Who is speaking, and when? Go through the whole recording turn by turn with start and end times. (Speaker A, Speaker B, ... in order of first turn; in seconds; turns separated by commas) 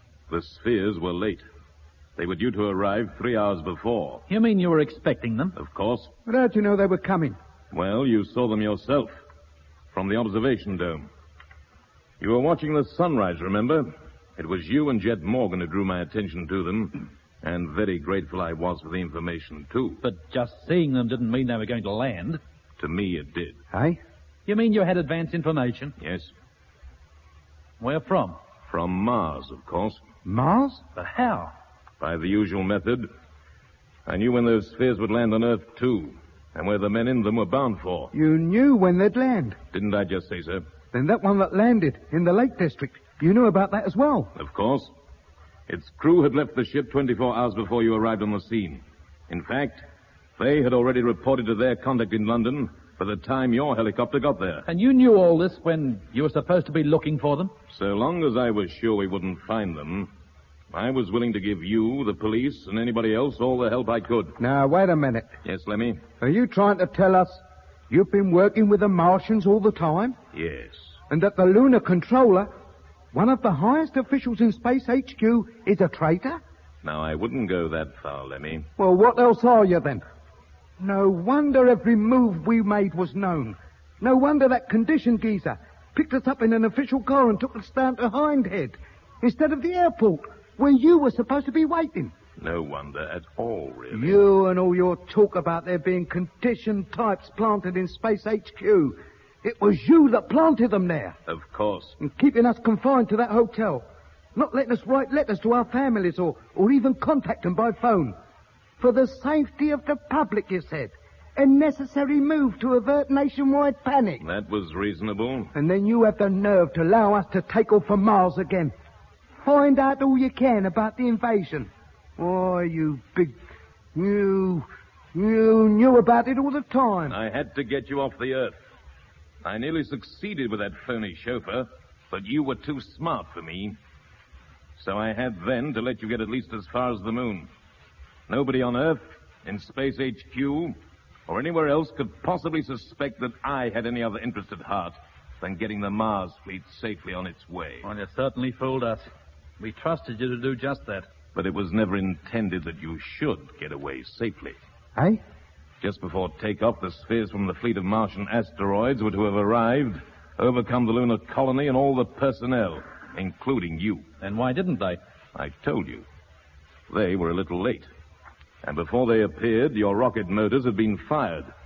Speaker A: 0.3-1.4, Speaker A: 2.2-4.2, Speaker B: 4.3-5.6, Speaker A: 5.5-6.1, Speaker C: 6.3-7.4, Speaker A: 7.7-9.2, Speaker A: 9.9-11.1, Speaker A: 12.2-20.0, Speaker B: 20.0-22.4, Speaker A: 22.8-23.6, Speaker C: 23.7-24.0, Speaker B: 24.5-25.9, Speaker A: 26.0-26.3, Speaker B: 27.8-28.4, Speaker A: 28.7-30.0, Speaker C: 30.3-30.8, Speaker B: 30.9-31.5, Speaker A: 32.0-33.1, Speaker A: 34.1-38.1, Speaker C: 38.1-39.6, Speaker A: 39.7-40.6, Speaker C: 40.9-44.3, Speaker A: 44.4-44.9, Speaker A: 45.7-49.9, Speaker A: 50.4-54.7, Speaker B: 54.7-57.5, Speaker A: 57.7-60.1, Speaker A: 60.7-64.4, Speaker C: 64.4-65.3, Speaker A: 65.4-66.0, Speaker C: 66.2-70.2, Speaker A: 70.3-71.0, Speaker C: 71.1-72.5, Speaker C: 73.1-76.4, Speaker A: 76.8-78.7, Speaker C: 78.8-80.0, Speaker C: 80.8-92.1, Speaker A: 92.4-94.2, Speaker C: 93.9-101.2, Speaker A: 101.3-102.0, Speaker C: 102.0-103.8, Speaker C: 104.4-108.2, Speaker C: 108.8-114.2, Speaker A: 114.2-115.5, Speaker C: 115.5-118.7, Speaker C: 119.4-123.3, Speaker C: 123.9-127.2, Speaker A: 127.1-128.6, Speaker A: 129.4-133.8, Speaker A: 134.8-137.5, Speaker A: 138.3-140.8, Speaker A: 141.3-147.9, Speaker B: 147.8-151.1, Speaker A: 151.3-154.6, Speaker A: 155.8-164.1, Speaker B: 164.2-165.0, Speaker A: 165.3-166.0, Speaker A: 166.9-167.9, Speaker A: 168.6-171.5